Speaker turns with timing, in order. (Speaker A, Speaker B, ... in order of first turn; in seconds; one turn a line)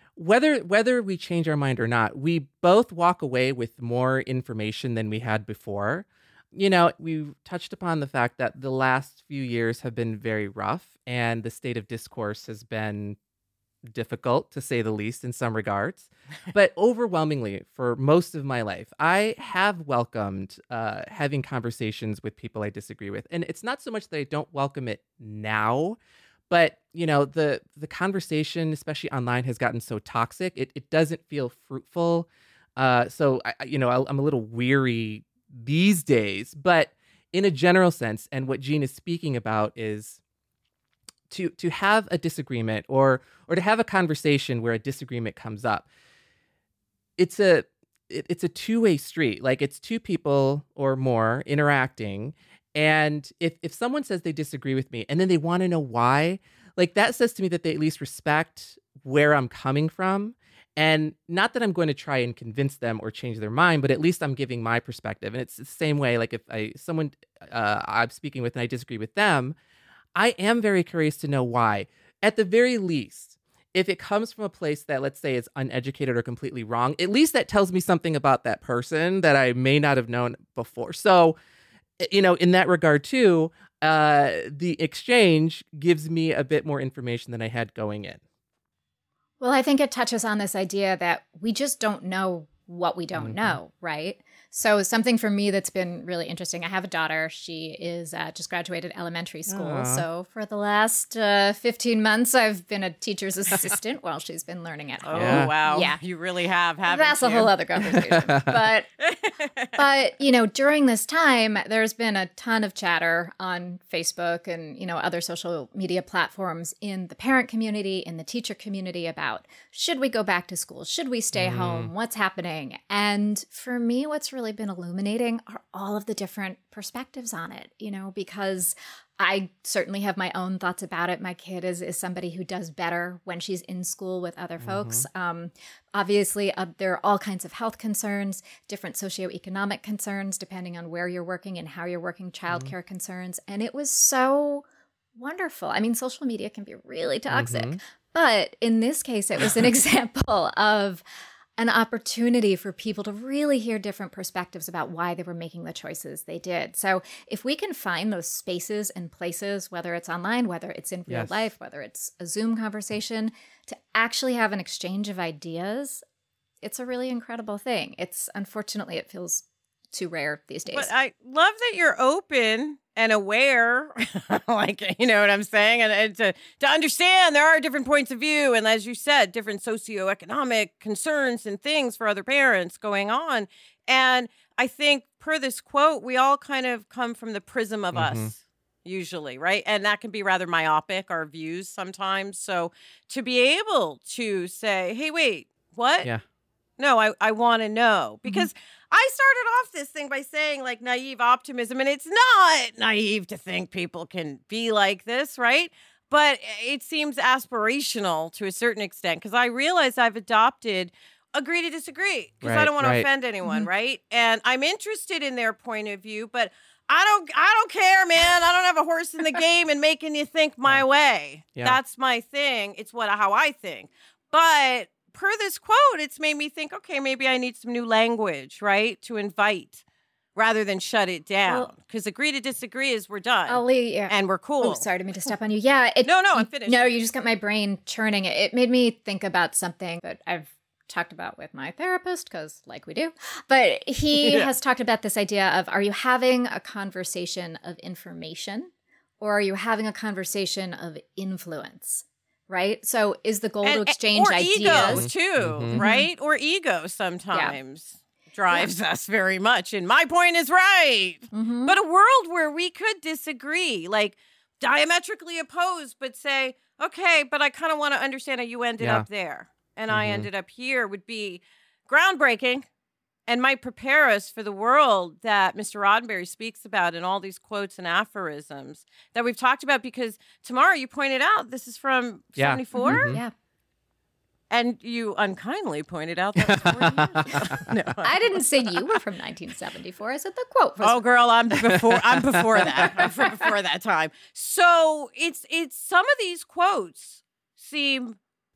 Speaker A: 0.1-13.2
Speaker A: 13.9-26.0
Speaker A: 26.5-40.2
Speaker A: 41.3-45.9
Speaker A: 47.2-69.5
Speaker A: 70.2-81.4
Speaker A: 82.0-88.2
Speaker B: 89.4-106.0
Speaker A: 93.2-93.6
Speaker A: 99.5-100.0
Speaker C: 105.0-107.6
Speaker A: 105.1-105.5
Speaker B: 106.8-108.9
Speaker A: 107.8-108.4
Speaker C: 109.0-109.8
Speaker B: 109.7-144.6
Speaker A: 121.3-121.9
Speaker A: 134.6-135.1
Speaker A: 142.5-142.7
Speaker B: 145.2-151.0
Speaker A: 147.3-147.8
Speaker B: 151.6-166.0
Speaker A: 161.1-161.5
Speaker B: 166.6-170.9
Speaker C: 170.7-196.1
Speaker A: 187.9-188.3
Speaker C: 196.8-229.8
Speaker B: 198.2-198.5
Speaker A: 212.4-213.1
Speaker B: 213.4-213.7
Speaker C: 230.3-235.3
Speaker B: 233.5-255.1
Speaker C: 236.0-237.0
Speaker C: 244.2-244.5
Speaker C: 253.6-272.6
Speaker A: 254.7-255.8
Speaker B: 255.7-256.1
Speaker B: 257.3-257.6
Speaker B: 261.3-261.7
Speaker A: 268.8-269.1
Speaker A: 269.9-270.3
Speaker C: 273.3-283.2
Speaker A: 282.4-283.2
Speaker B: 282.7-283.3
Speaker C: 284.5-288.8
Speaker A: 286.4-287.6
Speaker B: 288.0-291.0
Speaker C: 290.8-298.2
Speaker A: 291.7-292.9